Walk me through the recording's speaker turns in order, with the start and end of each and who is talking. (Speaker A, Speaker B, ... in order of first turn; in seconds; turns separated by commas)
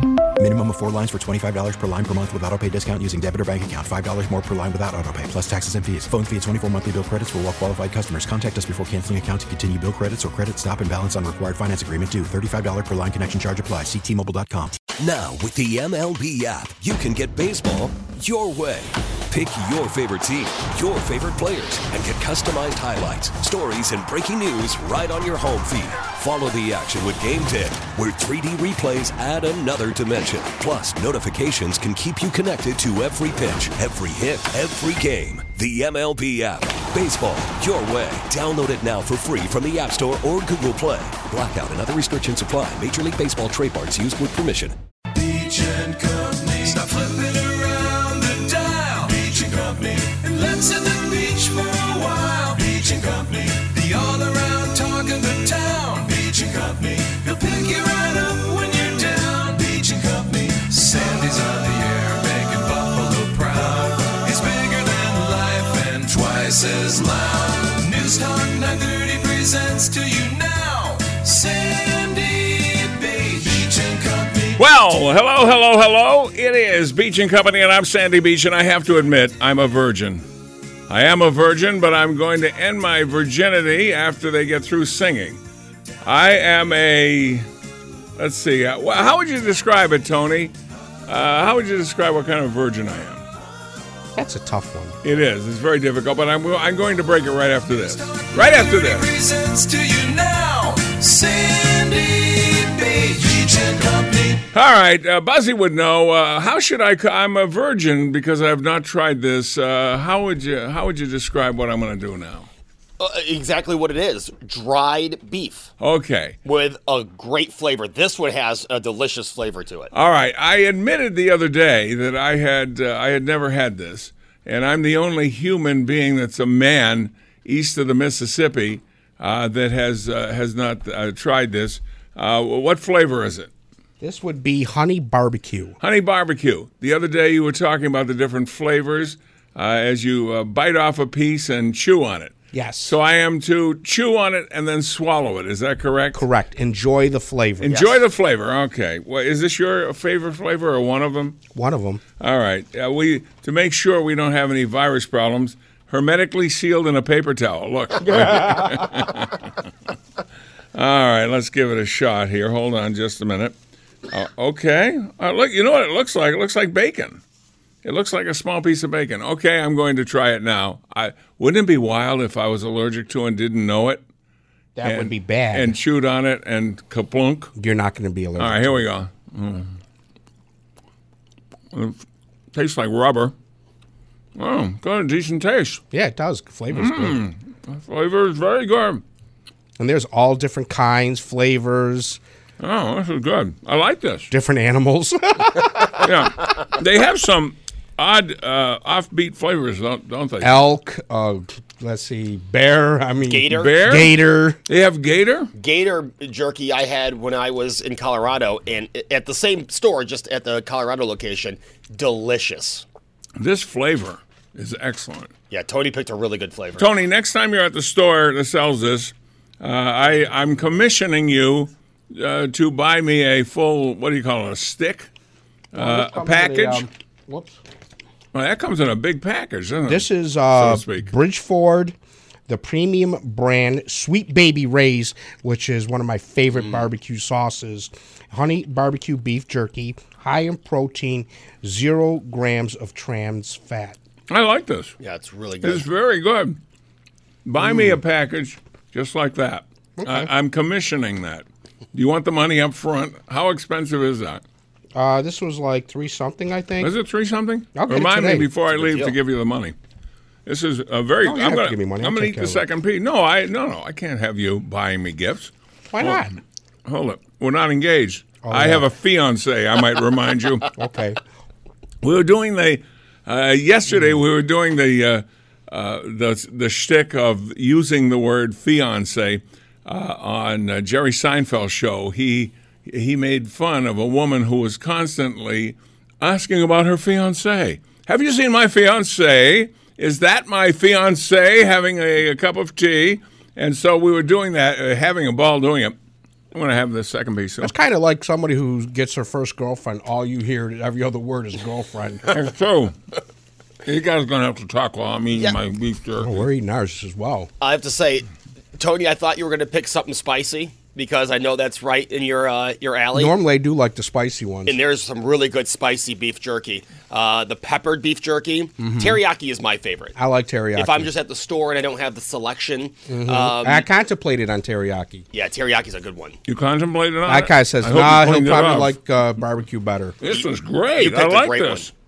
Speaker A: 0.4-14.8, Speaker B: 15.0-44.8, Speaker C: 45.1-74.6, Speaker D: 74.6-80.2, Speaker D: 80.9-85.4, Speaker D: 86.0-87.5, Speaker D: 88.2-90.5, Speaker D: 91.1-93.2, Speaker E: 94.2-95.0, Speaker D: 95.0-99.1, Speaker C: 97.8-104.5, Speaker D: 104.5-112.5, Speaker F: 113.0-115.7, Speaker D: 115.8-116.4, Speaker F: 116.5-119.9, Speaker D: 119.9-133.5, Speaker E: 134.0-135.8, Speaker D: 135.8-146.2, Speaker E: 142.5-142.9, Speaker E: 146.2-147.8, Speaker D: 147.6-151.4, Speaker F: 147.7-147.9, Speaker E: 151.6-152.0, Speaker D: 152.2-159.5, Speaker E: 158.0-159.1, Speaker D: 160.7-163.5, Speaker D: 164.1-167.2, Speaker D: 167.8-174.0, Speaker E: 174.8-175.8, Speaker D: 174.8-177.5, Speaker E: 177.6-178.8, Speaker D: 178.4-179.7, Speaker D: 181.7-182.0, Speaker D: 182.5-183.3, Speaker D: 184.3-185.8, Speaker E: 185.9-187.2, Speaker D: 186.7-189.0, Speaker E: 189.8-192.2, Speaker D: 192.6-194.3, Speaker E: 194.3-196.1, Speaker D: 196.0-200.6, Speaker E: 200.4-204.6, Speaker F: 203.3-203.7, Speaker D: 203.5-204.2, Speaker D: 204.7-205.5, Speaker F: 205.6-212.9, Speaker D: 213.4-215.3, Speaker F: 215.5-216.9, Speaker D: 216.8-225.1, Speaker D: 225.7-226.9, Speaker E: 225.8-227.6, Speaker D: 228.3-231.1, Speaker E: 229.9-232.0, Speaker E: 232.5-244.0, Speaker F: 236.6-236.8, Speaker D: 244.3-244.9, Speaker F: 245.0-245.8, Speaker D: 245.6-246.6, Speaker D: 247.4-254.4, Speaker E: 247.6-248.0, Speaker E: 250.0-250.3, Speaker E: 254.9-256.9, Speaker D: 256.8-259.8, Speaker E: 257.8-258.5, Speaker F: 258.7-259.2, Speaker D: 260.5-266.2, Speaker E: 261.2-262.6, Speaker E: 265.9-266.4, Speaker D: 266.9-270.7, Speaker E: 268.4-268.9, Speaker E: 270.7-271.2, Speaker D: 272.0-296.0, Speaker D: 296.5-297.7, Speaker E: 297.6-302.4, Speaker D: 302.3-303.0, Speaker D: 303.9-306.4, Speaker E: 306.2-307.5, Speaker F: 307.6-313.3, Speaker E: 313.1-314.8, Speaker F: 314.7-320.2, Speaker E: 318.8-319.2, Speaker E: 320.2-321.1, Speaker F: 320.8-323.9, Speaker E: 323.1-325.2, Speaker F: 325.3-326.4, Speaker D: 326.5-328.9, Speaker E: 327.3-330.2, Speaker D: 330.2-331.9, Speaker F: 331.0-331.9